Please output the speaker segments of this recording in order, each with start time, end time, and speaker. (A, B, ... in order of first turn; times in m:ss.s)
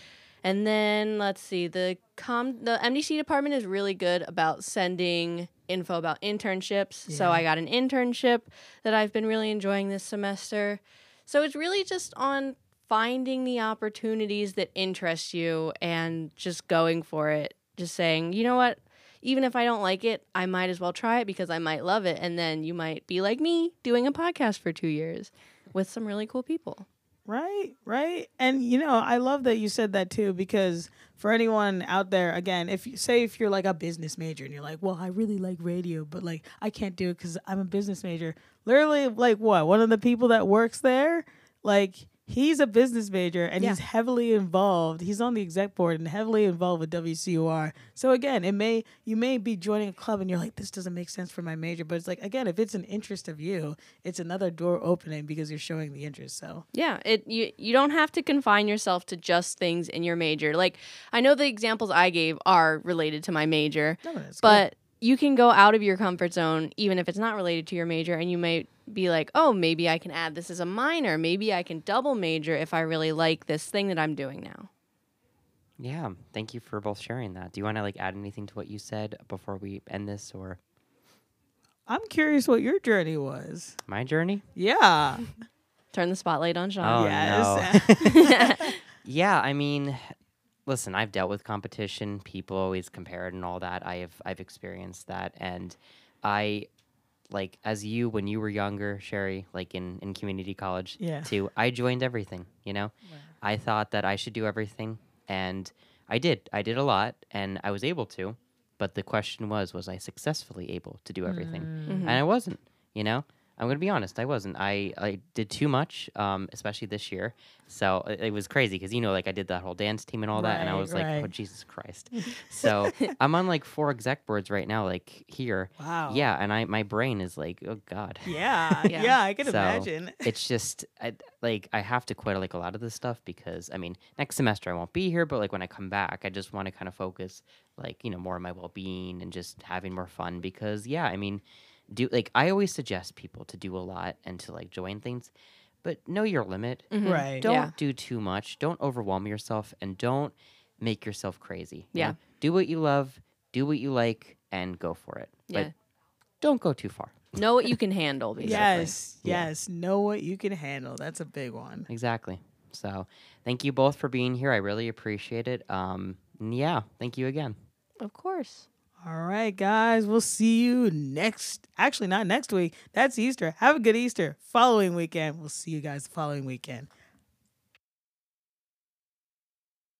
0:00.4-0:26.8 A
0:07.1-0:07.4 B
0:27.2-0:56.6 B
0:56.7-1:14.7 A
1:04.0-1:04.6 B
1:15.8-1:20.6 C
1:21.9-1:23.8 B
1:23.8-1:24.4 C
1:24.6-1:25.2 B
1:25.9-1:27.1 A
1:26.8-1:28.4 C
1:26.9-1:27.9 B
1:28.0-1:28.8 A
1:29.0-1:30.1 C
1:30.6-1:36.7 C
1:37.3-2:08.9 C
1:41.0-1:41.3 B
1:51.2-1:52.1 B
1:51.9-1:52.2 A
2:00.3-2:01.3 B
2:02.2-2:02.7 B
2:05.8-2:06.2 B
2:08.2-2:10.3 B
2:08.9-2:09.2 A
2:09.4-2:25.3 C
2:25.8-2:35.7 C
2:26.9-2:27.7 A
2:27.0-2:27.4 B
2:31.9-2:32.2 A
2:36.4-2:37.7 C
2:37.3-2:38.9 A
2:38.4-2:41.9 B
2:38.4-2:39.5 C
2:41.9-2:47.6 C
2:48.0-2:48.6 A
2:49.0-2:56.9 B